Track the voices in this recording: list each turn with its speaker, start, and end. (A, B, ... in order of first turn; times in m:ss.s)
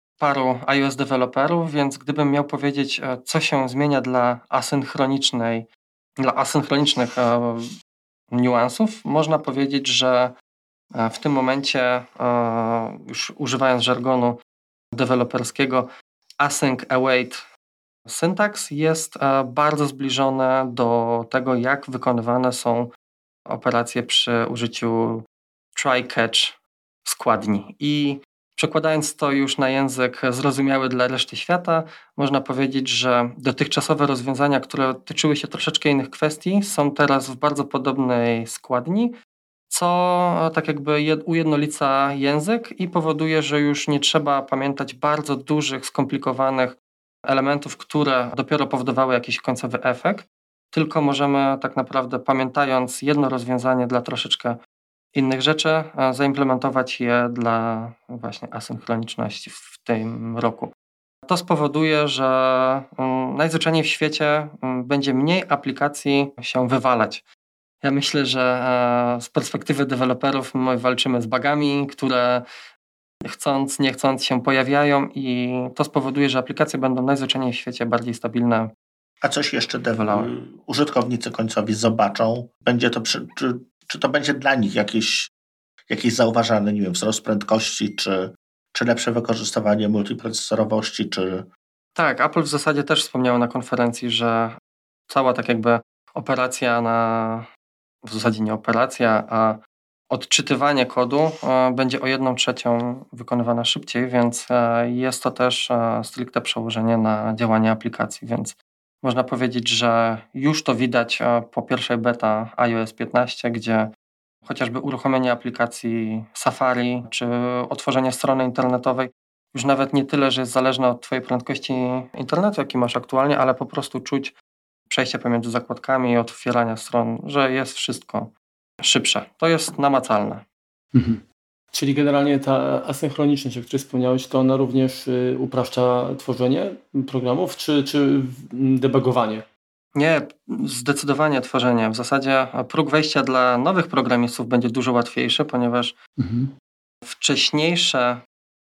0:00.2-0:05.7 A
0:06.2-0:07.7 A
0:08.3-0:10.3 A
0:10.9-0:14.4 A
0:14.9-0:15.9 A
0:16.4-0:17.4 A
0:18.1-0:22.9 A
0:23.5-0:39.1 A
0:39.7-0:46.8 A
0:47.3-0:54.6 A
0:55.1-1:00.7 A
1:01.3-1:07.2 A
1:07.8-1:12.4 A
1:13.2-1:18.7 A
1:19.2-1:25.3 B
1:19.9-1:20.3 A
1:25.9-1:31.5 B
1:31.9-1:34.6 A
1:35.1-1:37.5 A
1:38.0-1:39.6 A
1:40.1-1:53.9 A
1:54.4-2:04.3 A
2:04.9-2:10.4 A
2:10.9-2:19.4 C
2:19.9-2:25.9 A
2:26.2-2:26.5 C
2:27.1-2:28.2 A